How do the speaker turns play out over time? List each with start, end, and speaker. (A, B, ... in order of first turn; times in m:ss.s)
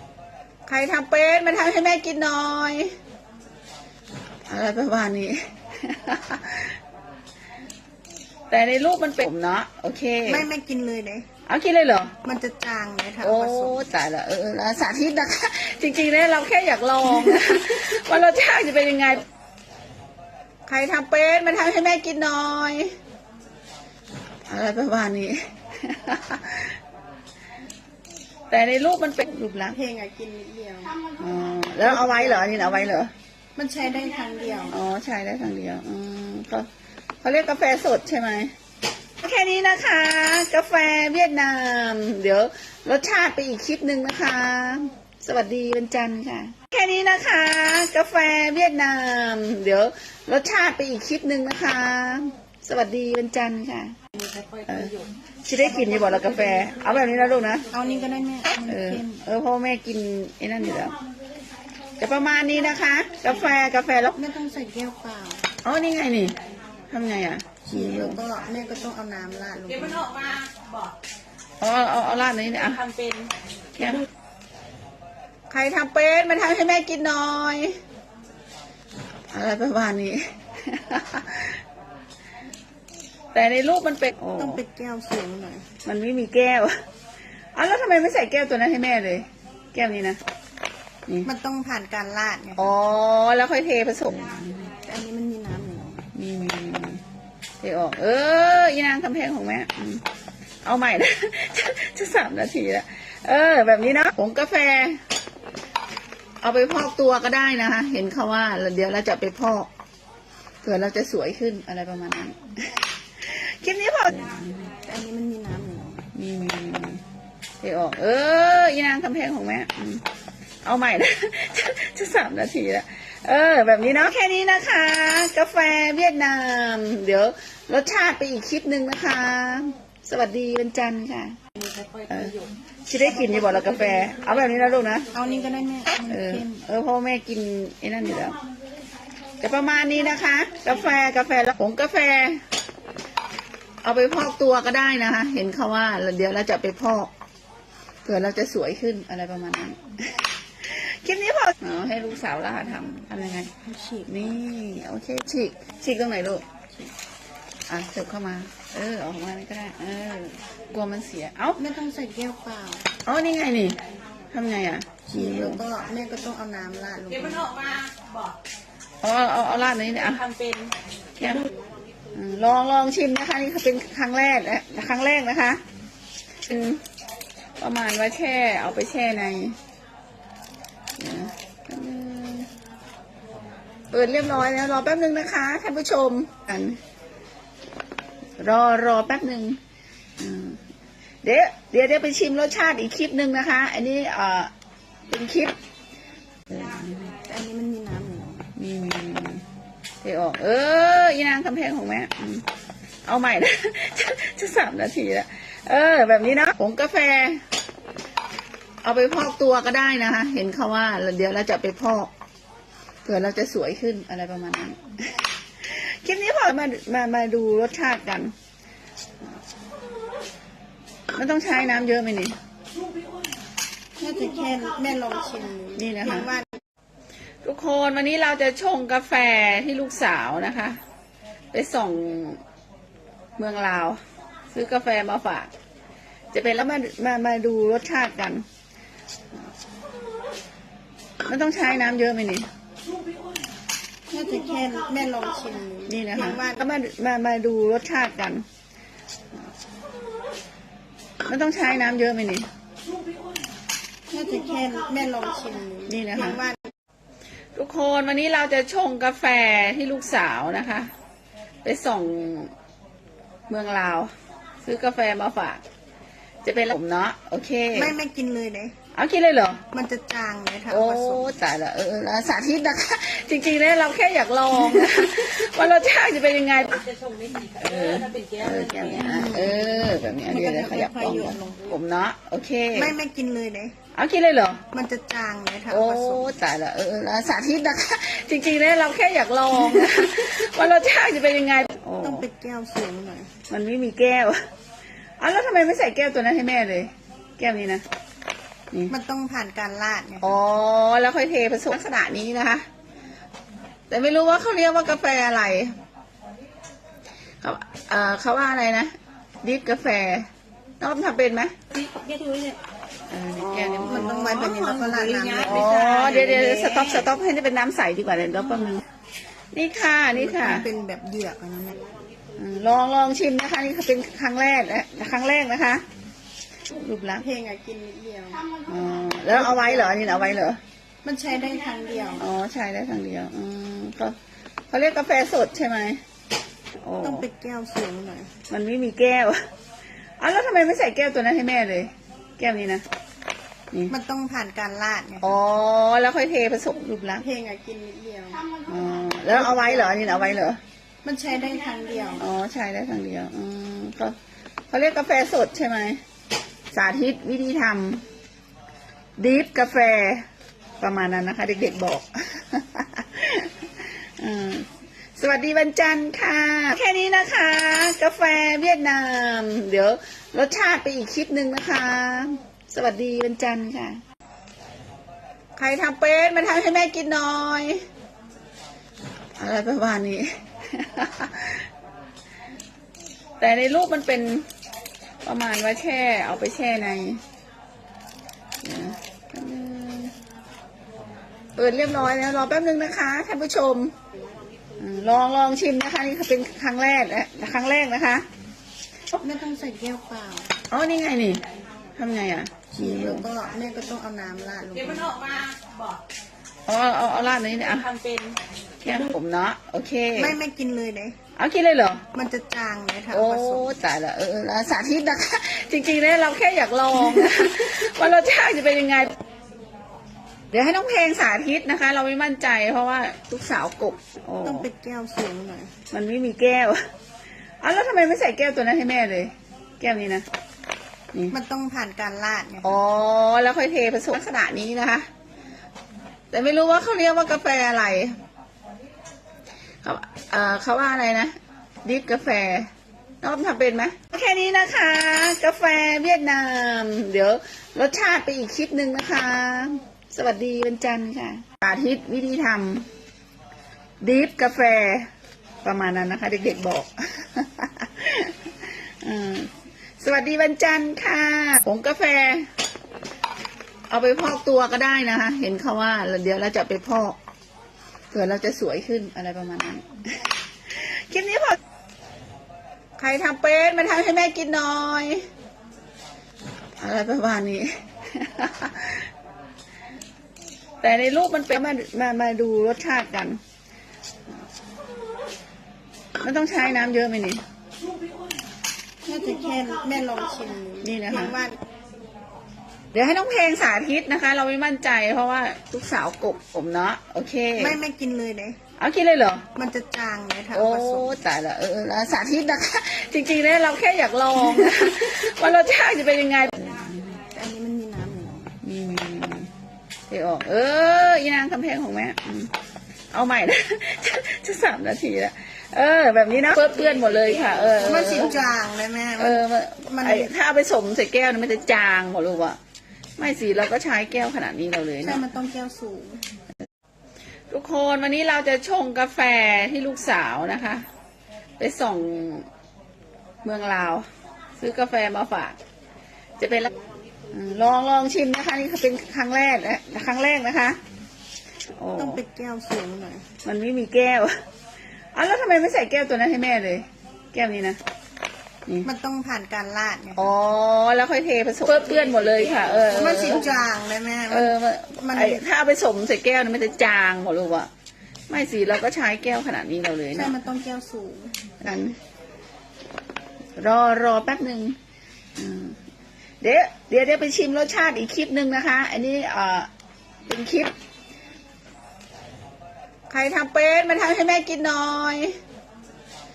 0:00.7-0:03.0 A
0:04.5-0:06.8 A
0:08.5-0:10.5 A
0:10.2-0:11.3 B
0:11.5-0:12.2 A
0:12.2-0:13.9 B
0:13.2-0:19.2 A
0:20.7-0:23.0 A
0:24.5-0:26.8 A
0:28.5-0:29.8 A
0:29.7-0:31.0 B
0:31.2-0:33.1 A
0:31.9-0:32.6 B
0:33.6-0:34.8 B
0:34.7-0:36.7 A
0:37.2-0:38.5 A
0:39.2-0:54.0 A
0:54.2-0:55.1 C
0:54.7-0:55.0 A
0:55.5-0:57.7 A
0:55.7-0:56.1 B
0:56.2-0:56.7 C
0:57.7-0:59.2 B
0:58.6-1:01.0 A
1:02.0-1:04.2 A
1:04.2-1:05.5 B
1:05.6-1:06.4 A
1:06.9-1:08.2 A
1:07.6-1:10.3 B
1:09.9-1:10.8 C
1:11.6-1:12.8 A
1:12.6-1:13.3 C
1:13.8-1:14.1 A
1:15.5-1:17.8 A
1:19.3-1:21.6 A
1:23.3-1:24.6 A
1:24.4-1:25.7 B
1:25.8-1:26.7 A
1:27.6-1:30.2 A
1:31.2-1:32.6 B
1:32.6-1:34.7 A
1:34.8-1:36.0 B
1:36.1-1:37.0 A
1:37.6-1:40.1 A
1:40.6-1:45.0 A
1:46.4-1:49.7 A
1:50.6-1:54.7 A
1:54.8-1:56.0 B
1:56.1-1:57.0 A
1:57.6-2:00.1 A
2:00.6-2:11.4 A
2:11.6-2:12.5 C
2:12.1-2:12.4 A
2:12.9-2:15.1 A
2:15.1-2:16.6 B
2:16.1-2:18.4 A
2:19.4-2:22.4 A
2:23.8-2:27.1 A
2:28.0-2:33.5 A
2:33.6-2:34.3 B
2:34.1-2:36.4 A
2:37.7-2:41.6 A
2:41.6-2:42.9 B
2:43.0-2:43.8 A
2:44.3-2:45.6 A
2:45.0-2:47.6 B
2:47.3-2:48.2 C
2:49.0-2:50.3 A
2:50.0-2:50.7 C
2:51.2-2:51.5 A
2:52.1-2:55.6 A
2:56.5-2:56.8 A
2:57.6-2:59.6 A
3:01.0-3:02.5 A
3:03.9-3:06.8 A
3:08.4-3:09.6 A
3:10.2-3:10.6 A
3:11.2-3:14.5 A
3:15.1-3:15.6 A
3:16.5-3:17.2 A
3:17.2-3:18.4 B
3:18.6-3:19.4 A
3:20.0-3:22.5 A
3:23.0-3:27.4 A
3:28.8-3:32.1 A
3:33.0-3:34.8 A
3:35.6-3:38.3 A
3:41.2-3:42.4 A
3:44.0-3:46.5 B
3:45.8-3:46.3 A
3:47.4-3:50.8 A
3:51.5-3:52.4 A
3:53.4-3:54.0 A
3:54.5-3:55.5 A
3:56.3-3:58.5 A
4:01.3-4:02.5 A
4:04.1-4:06.6 B
4:05.9-4:08.4 A
4:11.3-4:12.5 A
4:14.1-4:16.7 B
4:15.9-4:16.4 A
4:17.6-4:20.9 A
4:21.6-4:22.5 A
4:23.5-4:24.1 A
4:24.6-4:25.6 A
4:26.4-4:28.0 A
4:27.7-4:28.7 B
4:29.0-4:29.6 A
4:29.7-4:31.3 B
4:30.7-4:36.8 A
4:36.8-4:39.2 C
4:37.6-4:43.0 A
4:39.0-4:41.8 B
4:42.7-4:43.8 B
4:43.9-4:44.6 A
4:44.7-4:46.4 B
4:45.7-4:52.2 A
4:52.0-4:53.3 B
4:53.5-4:54.4 A
4:55.2-4:57.8 A
4:58.9-5:00.3 B
5:00.2-5:02.7 A
5:03.9-5:05.8 A
5:07.4-5:10.3 A
5:10.8-5:11.6 A
5:11.7-5:12.6 B
5:13.1-5:14.6 A
5:13.8-5:16.9 B
5:14.5-5:16.0 C
5:15.4-5:18.8 A
5:19.5-5:20.7 A
5:20.2-5:21.8 B
5:22.4-5:25.8 A
5:26.7-5:27.2 A
5:27.2-5:28.5 B
5:28.7-5:30.6 A
5:29.3-5:30.0 B
5:31.0-5:32.3 B
5:32.2-5:34.2 A
5:34.7-5:36.0 A
5:36.8-5:37.2 A
5:37.0-5:38.3 B
5:38.5-5:39.4 A
5:40.2-5:42.8 A
5:43.9-5:45.3 B
5:45.2-5:47.2 A
5:47.2-5:48.5 B
5:48.7-5:50.6 A
5:49.5-5:49.9 B
5:51.0-5:52.3 B
5:52.2-5:54.2 A
5:54.7-5:56.0 A
5:56.7-5:58.0 A
5:59.2-6:00.2 A
6:00.8-6:14.0 A
6:15.6-6:17.9 A
6:19.4-6:21.7 A
6:23.4-6:24.5 A
6:25.2-6:27.2 A
6:28.6-6:30.2 A
6:31.6-6:33.9 A
6:34.8-6:38.3 A
6:39.2-6:40.5 B
6:40.7-6:41.4 A
6:42.0-6:43.3 A
6:42.7-6:45.5 B
6:44.9-6:45.9 C
6:46.7-6:47.9 A
6:47.6-6:48.4 C
6:48.8-6:50.4 A
6:50.1-6:51.2 B
6:51.4-6:52.0 A
6:52.1-6:53.8 B
6:53.1-6:59.2 A
7:00.5-7:04.7 A
7:04.4-7:05.7 B
7:05.9-7:06.8 A
7:07.6-7:10.3 A
7:11.3-7:12.8 B
7:12.6-7:15.1 A
7:16.3-7:18.2 A
7:19.8-7:22.7 A
7:23.2-7:32.9 A
7:34.0-7:35.1 A
7:35.6-7:42.5 A
7:43.9-7:47.2 A
7:48.1-7:51.6 A
7:53.0-7:55.3 A
7:56.8-7:59.1 A
8:00.8-8:03.4 A
8:06.2-8:07.4 A
8:09.0-8:11.6 B
8:10.8-8:11.4 A
8:12.9-8:17.8 A
8:17.6-8:18.6 B
8:18.8-8:19.5 A
8:19.6-8:21.2 B
8:20.5-8:27.2 A
8:27.3-8:28.5 B
8:28.6-8:29.5 A
8:30.1-8:32.5 A
8:33.1-8:38.4 A
8:36.9-8:37.8 C
8:37.8-8:40.3 B
8:39.2-8:42.6 A
8:43.2-8:45.2 A
8:45.0-8:46.2 B
8:47.5-8:50.9 A
8:51.6-8:52.5 A
8:53.4-8:54.1 A
8:54.6-8:55.6 A
8:56.4-8:56.7 A
8:57.3-9:00.8 A
9:01.8-9:02.2 A
9:02.0-9:03.3 B
9:03.4-9:04.3 A
9:05.1-9:07.8 A
9:08.8-9:10.2 B
9:10.2-9:13.5 A
9:12.0-9:13.0 C
9:12.9-9:15.4 B
9:14.3-9:17.7 A
9:18.3-9:20.4 A
9:20.1-9:21.3 B
9:21.6-9:22.0 A
9:23.6-9:24.8 A
9:25.4-9:25.8 A
9:26.4-9:29.7 A
9:30.3-9:30.7 A
9:33.1-9:35.4 A